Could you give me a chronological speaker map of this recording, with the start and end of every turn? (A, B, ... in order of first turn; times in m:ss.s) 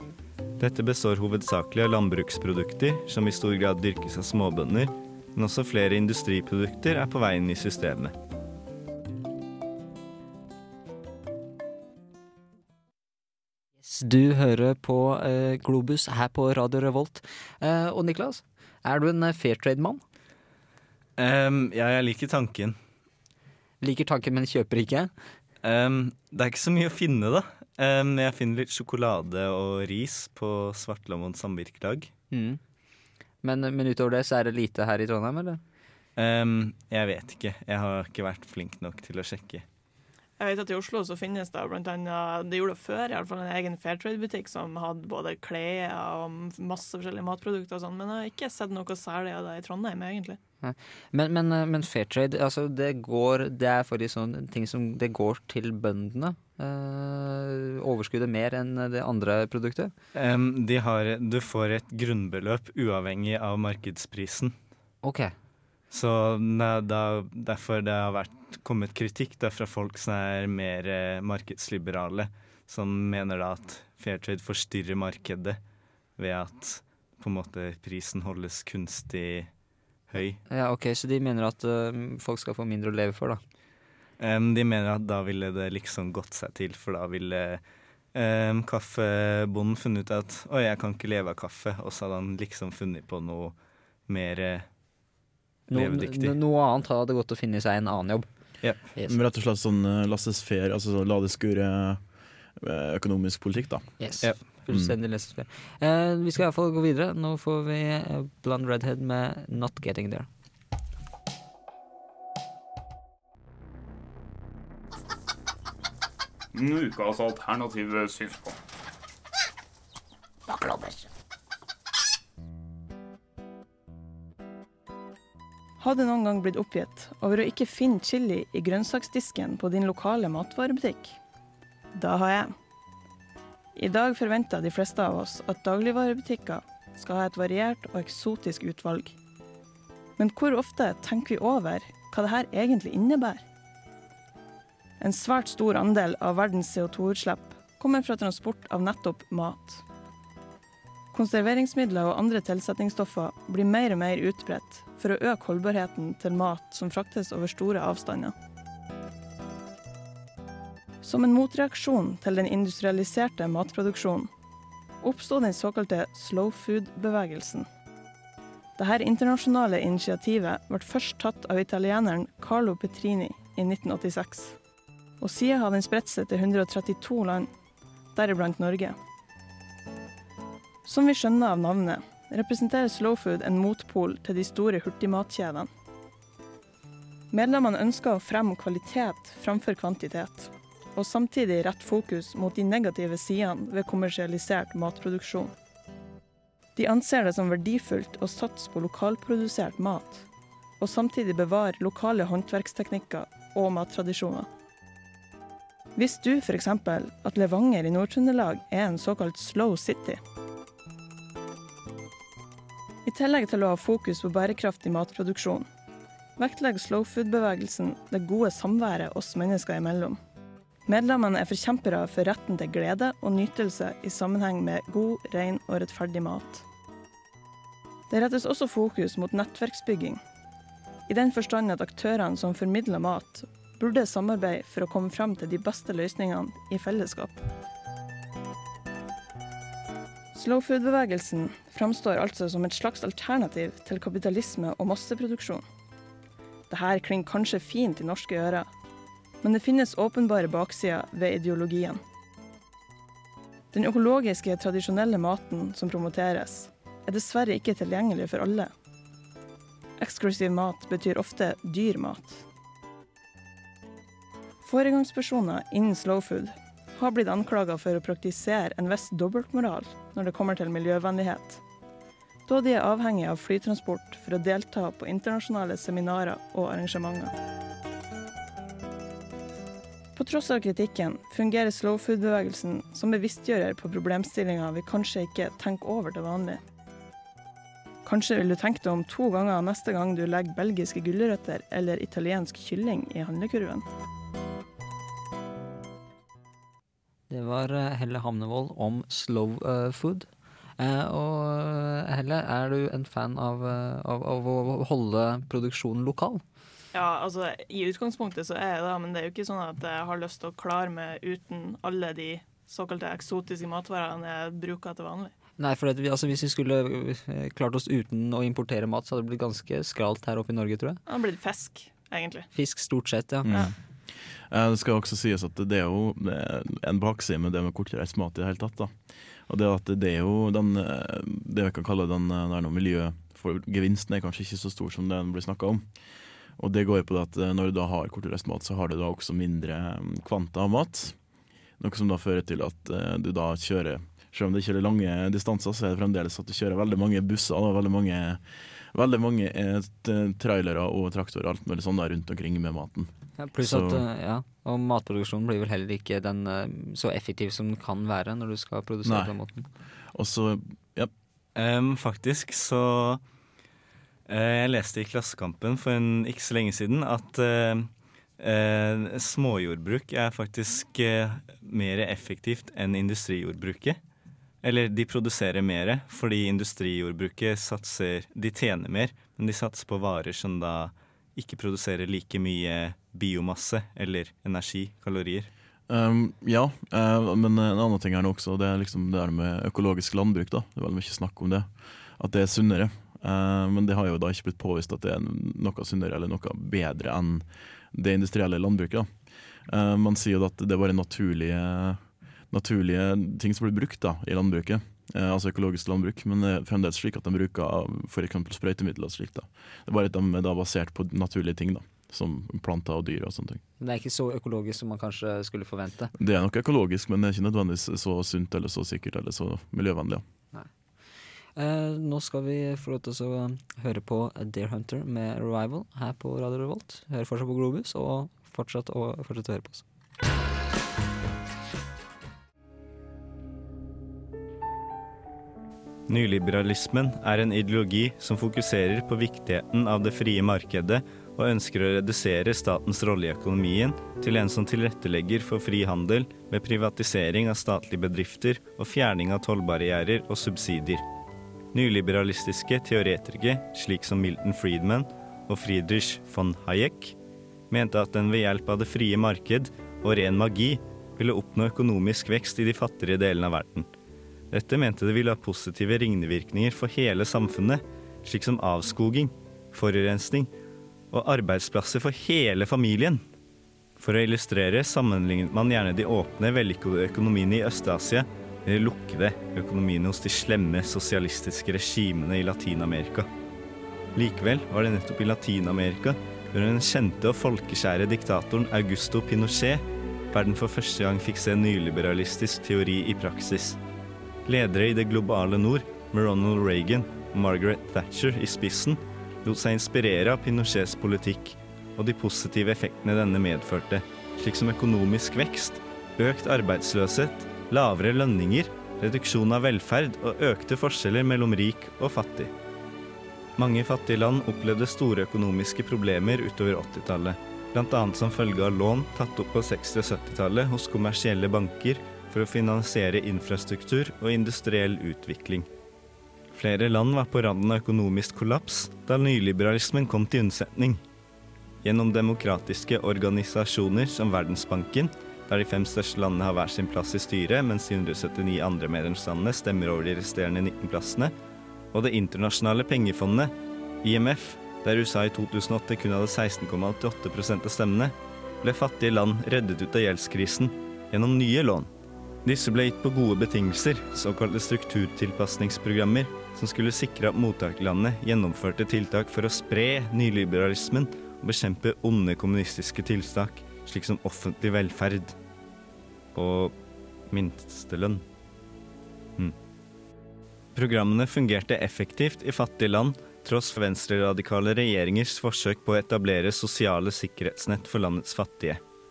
0:00.6-0:08.1 A
0:13.8-0:20.0 B
0:21.2-0:22.8 A
0:23.8-0:25.1 B
0:25.6-0:32.1 A
0:32.3-0:32.6 B
0:33.4-0:35.6 B
0:36.2-0:39.6 A
0:40.4-0:50.4 C
0:50.6-0:59.9 B
1:00.1-1:04.5 A
1:05.0-1:05.4 B
1:05.9-1:15.6 A
1:16.2-1:19.5 A
1:20.1-1:20.4 A
1:20.5-1:23.4 B
1:24.2-1:27.6 A
1:28.1-1:33.6 A
1:34.1-1:34.7 A
1:35.7-1:38.3 B
1:35.7-1:36.4 A
1:39.1-1:42.0 D
1:42.6-1:43.9 D
1:44.0-1:50.3 B
1:44.7-1:45.0 D
1:56.5-1:58.5 E
2:05.8-2:11.2 C
2:12.0-2:12.5 C
2:13.8-2:19.2 C
2:20.2-2:23.4 C
2:25.0-2:29.8 C
2:31.1-2:38.4 C
2:41.0-2:44.3 C
2:45.0-2:47.7 C
2:48.8-2:54.6 C
2:55.2-2:57.5 C
2:58.2-2:59.0 C
3:00.9-3:05.7 C
3:07.3-3:15.5 C
3:16.8-3:20.2 C
3:20.8-3:24.5 C
3:26.0-3:30.2 C
3:33.1-3:35.7 C
3:36.4-3:40.2 C
3:40.9-3:46.6 C
3:48.1-3:50.2 C
3:51.1-3:57.5 C
4:00.3-4:05.6 C
4:06.7-4:08.7 C
4:09.4-4:12.0 C
4:13.7-4:18.7 C
4:20.0-4:22.4 C
4:24.6-4:31.6 C
4:32.5-4:37.3 C
4:40.2-4:46.6 C
4:48.0-4:53.8 C
4:57.3-5:00.3 B
5:00.8-5:06.4 B
5:06.9-5:15.3 C
5:15.6-5:21.0 B
5:21.1-5:22.5 C
5:22.5-5:23.5 B
5:23.4-5:23.7 D
5:23.5-5:23.7 C
5:24.5-5:29.0 D
5:29.5-5:35.8 D
5:36.6-5:41.2 D
5:41.8-5:48.4 D
5:48.9-5:54.0 D
5:53.4-5:59.7 B
5:59.0-5:59.4 D
6:00.1-6:01.1 D
6:01.6-6:03.2 A
6:04.3-6:14.0 A
6:14.6-6:25.5 A
6:25.9-6:39.1 D
6:39.7-6:53.6 D
6:53.8-6:56.1 B
6:56.2-7:00.2 D
7:01.6-7:09.8 B
7:16.1-7:31.0 A
7:31.7-7:37.2 A
7:37.7-7:43.9 A
7:44.5-7:50.5 A
7:51.1-7:53.2 A
7:54.0-8:03.3 A
8:04.2-8:13.8 A
8:14.5-8:32.5 A
8:33.6-8:45.7 A
8:46.5-8:51.0 A
8:51.8-9:01.3 A
9:01.9-9:03.5 A
9:04.0-9:11.9 A
9:12.4-9:25.4 A
9:26.4-9:26.7 A
9:27.3-9:28.2 A
9:30.8-9:38.8 A